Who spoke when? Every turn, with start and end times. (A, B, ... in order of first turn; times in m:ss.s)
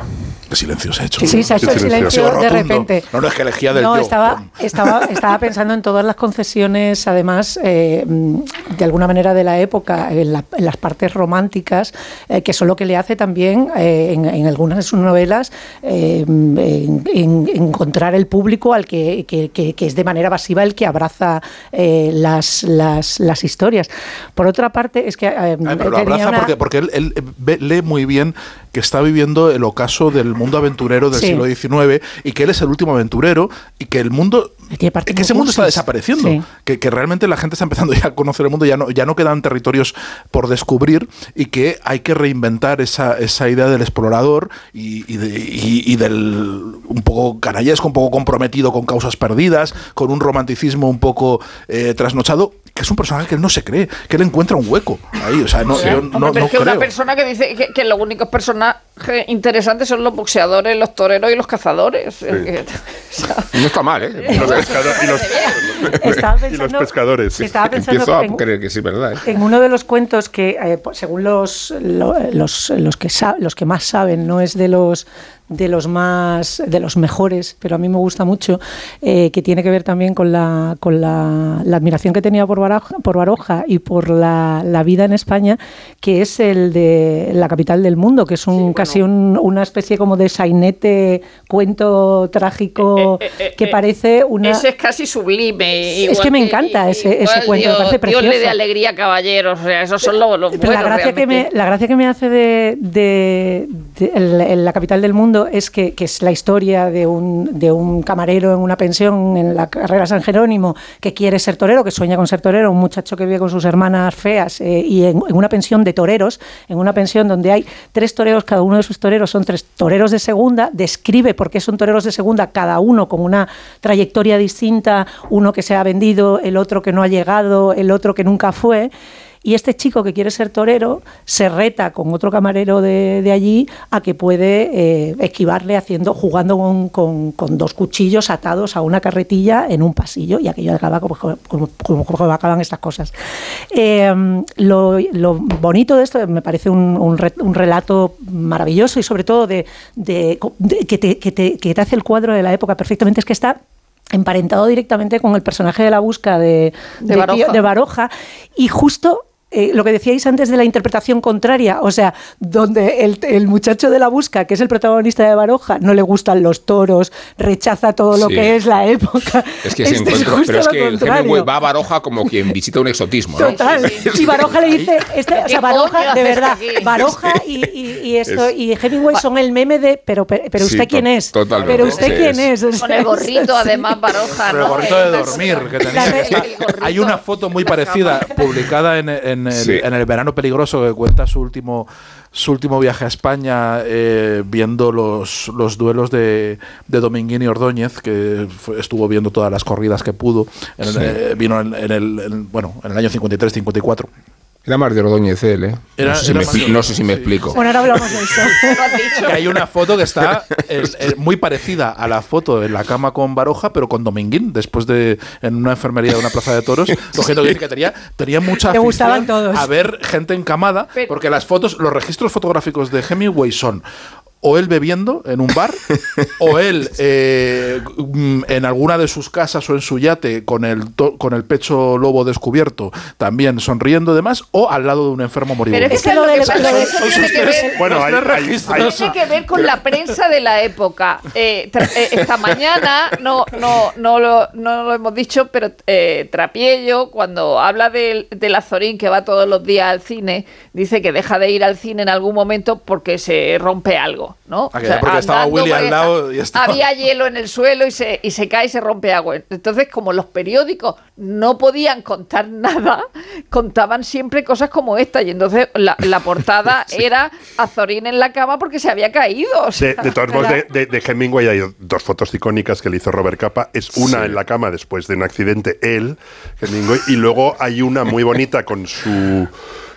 0:00.5-0:05.3 A
0:01.2-0:03.1 B
0:01.6-0:02.3 C
0:03.7-0:26.5 B
0:25.6-0:34.6 A
0:31.1-0:31.4 B
0:34.7-0:36.4 B
0:35.1-0:56.9 A
0:55.7-1:03.5 D
1:03.5-1:04.8 E
1:04.1-1:05.7 D
1:04.3-1:06.0 C
1:06.0-1:08.4 B
1:06.0-1:06.3 E
1:06.5-1:07.5 C
1:07.4-1:09.2 E
1:09.2-1:34.6 B
1:28.5-1:29.0 D
1:32.8-1:33.8 D
1:34.4-1:41.5 D
1:36.0-1:38.6 B
1:40.5-2:08.9 B
2:09.4-2:23.1 B
2:23.7-2:33.6 B
2:34.1-2:51.5 B
2:37.0-2:37.6 D
2:48.2-2:48.5 E
2:49.6-2:54.5 E
2:53.4-3:04.0 B
2:53.4-2:54.1 D
2:55.3-2:56.9 D
2:57.0-2:57.4 E
3:00.6-3:02.5 E
3:01.5-3:02.0 A
3:02.8-3:08.4 D
3:04.4-3:24.1 A
3:04.9-3:05.1 B
3:05.8-3:06.4 B
3:09.5-3:09.8 E
3:24.6-3:27.6 E
3:26.0-3:28.2 A
3:27.5-3:29.0 B
3:28.7-3:29.4 D
3:29.2-3:43.8 A
3:38.7-3:39.7 B
3:40.9-3:41.2 D
3:44.4-3:45.8 A
3:46.4-3:59.2 A
3:55.7-3:57.7 D
3:55.9-3:57.8 B
3:57.8-3:59.1 C
3:58.7-4:30.1 D
4:14.7-4:16.9 A
4:29.8-4:39.5 C
4:30.3-4:30.6 B
4:34.0-4:34.4 E